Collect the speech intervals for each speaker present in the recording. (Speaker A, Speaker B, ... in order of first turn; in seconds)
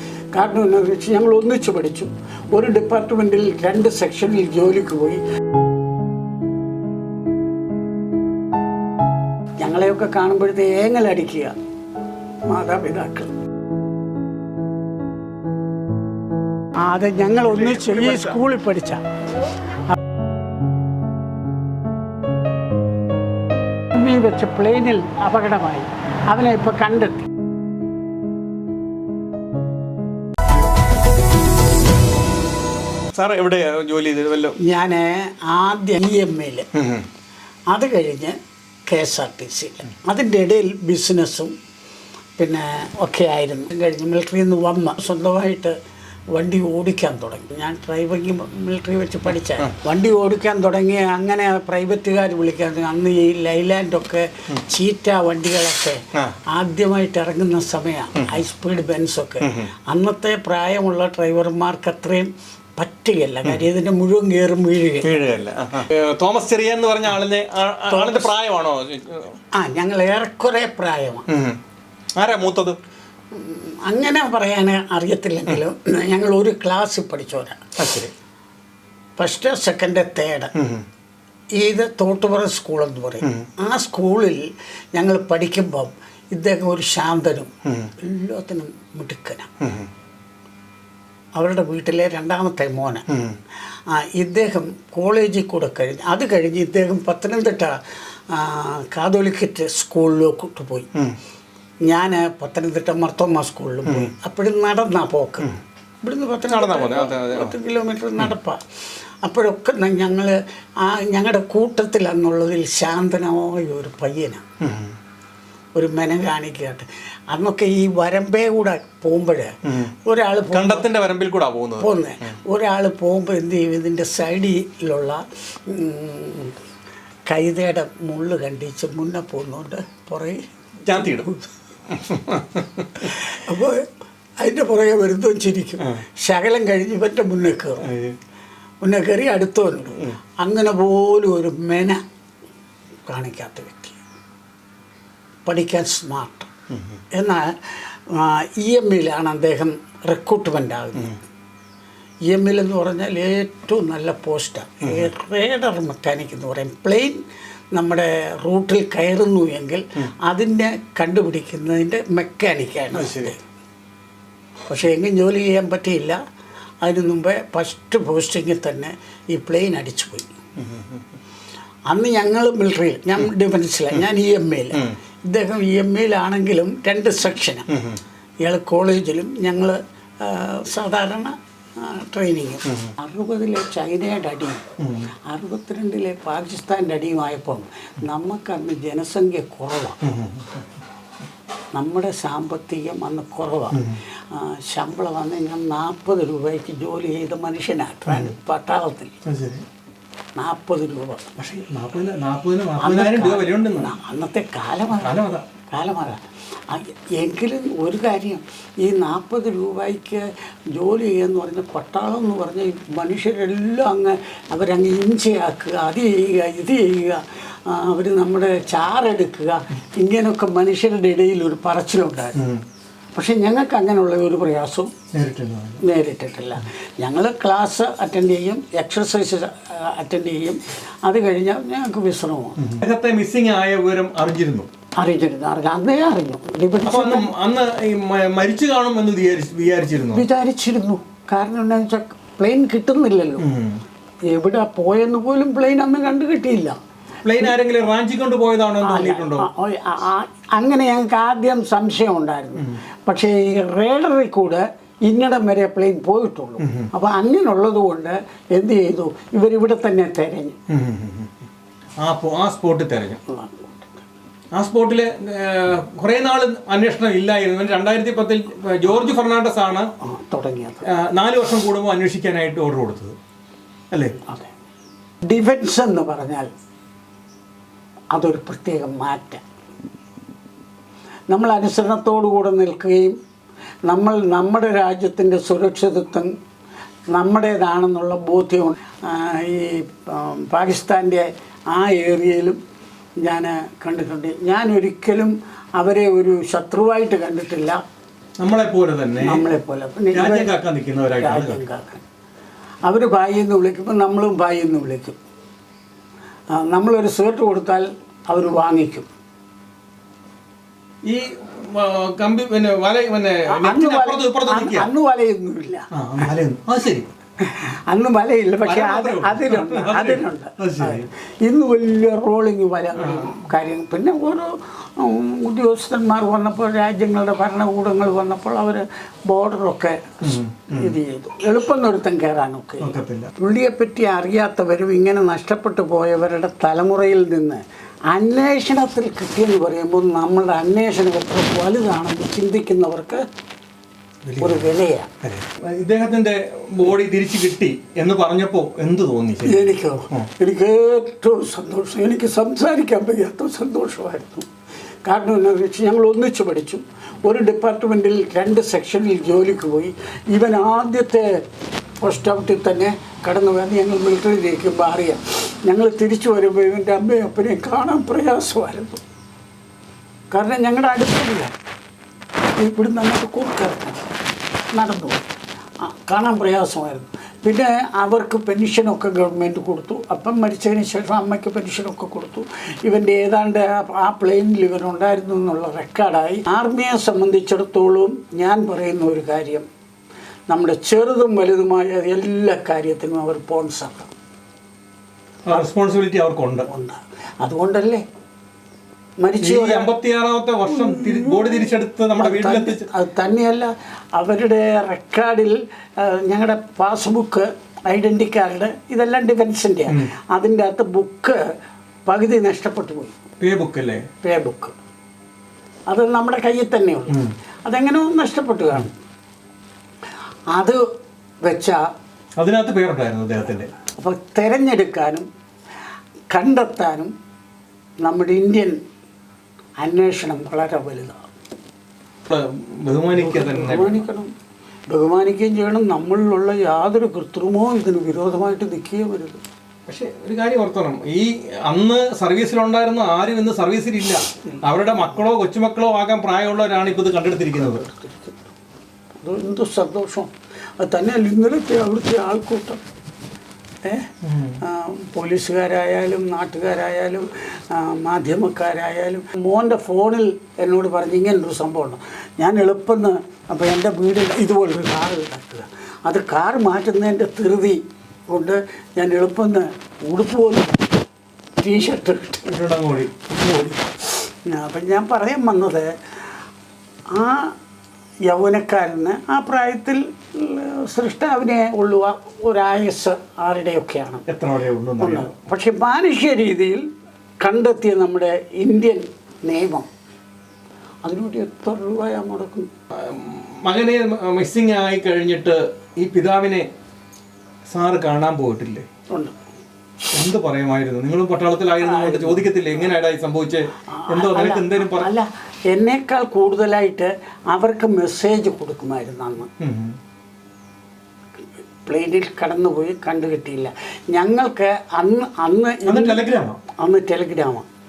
Speaker A: 0.3-5.2, 9.6-11.5, 12.5-13.3, 16.8-19.0, 23.9-27.3, 34.6-36.7, 37.7-38.4, 38.9-41.5, 42.4-45.7, 46.3-65.3, 67.9-68.4, 69.5-71.2, 73.3-77.6, 79.2-80.5, 81.6-89.5, 91.4-93.1, 93.9-97.8, 98.3-100.9, 101.9-105.5, 106.0-108.6, 109.2-114.4, 115.8-119.5, 120.1-120.9, 121.8-126.6, 127.3-130.4, 130.9-131.4, 133.0-133.8, 134.4-137.8, 138.8-142.0, 143.1-144.0, 145.5-146.5, 147.1-151.2, 152.3-157.2, 157.7-163.4, 164.7-166.2, 166.8-170.3, 171.9-177.7, 178.4-184.6, 185.1-190.0, 191.7-199.1, 200.4-201.3, 202.8-222.4, 223.2-224.9, 225.8-232.6, 235.0-237.3, 240.1-243.4, 244.3-246.8, 248.8-260.6, 263.3-264.1, 270.0-270.9, 274.2-274.5, 275.2-276.5, 278.1-279.4, 281.3-283.2, 283.9-286.3, 287.1-292.6, 293.2-297.8, 299.2-300.6, 301.2-302.0, 302.9-305.2, 306.5-309.1, 313.5-315.9, 317.4-343.2, 344.4-345.1, 349.4-354.5, 355.1-361.3, 362.0-369.0, 370.3-371.5, 372.6-374.0, 374.7-375.2, 375.8-389.7, 390.5-394.1, 396.7-398.0, 399.2-399.9, 400.8-401.5, 402.2-411.4, 412.1-413.2, 414.2-414.7, 415.9-418.9, 420.5-420.8, 421.4-421.8, 424.0-425.2, 426.3-427.1, 428.0-428.8, 429.8-431.3, 433.1-434.3, 434.9-439.4, 447.6-448.4, 449.2-452.8, 454.6-470.8, 471.6-472.6, 473.3-475.9, 477.1-477.5, 478.3-484.3, 485.0-486.9, 487.4-489.9, 491.1-492.7, 501.8-502.5, 503.9-509.5, 511.9-516.3, 516.8-517.7
Speaker B: 33.1-34.6, 36.8-37.1, 59.4-59.7, 65.0-69.4, 71.3-71.6, 72.2-72.8, 77.8-78.1, 80.6-80.8, 83.2-83.5, 87.7-87.9, 89.6-89.9, 93.1-93.4, 106.5-107.5, 114.6-114.9, 119.7-119.9, 120.5-122.0, 130.8-131.3, 131.9-133.1, 137.8-138.2, 146.7-147.0, 162.9-163.3, 170.6-171.0, 177.7-178.0, 184.8-185.1, 190.0-190.6, 193.7-194.0, 199.2-199.7, 201.4-203.9, 205.0-205.5, 222.4-222.6, 225.1-225.8, 232.6-234.7, 236.9-240.3, 243.4-243.8, 247.2-249.5, 256.6-256.9, 260.7-261.4, 262.0-263.2, 264.6-269.9, 270.9-273.2, 273.9-274.2, 298.4-299.4, 300.1-301.6, 311.1-314.9, 315.9-317.1, 318.6-321.1, 323.0-323.3, 330.2-331.0, 332.8-333.3, 344.2-344.7, 345.2-350.3, 395.5-396.7, 399.4-402.9, 413.4-414.1, 422.4-423.7, 432.3-434.1, 439.9-447.9, 454.2-454.6, 472.5-473.2, 484.3-485.3, 493.1-496.7, 497.7-498.9, 500.1-505.1, 509.6-510.0, 515.9-516.6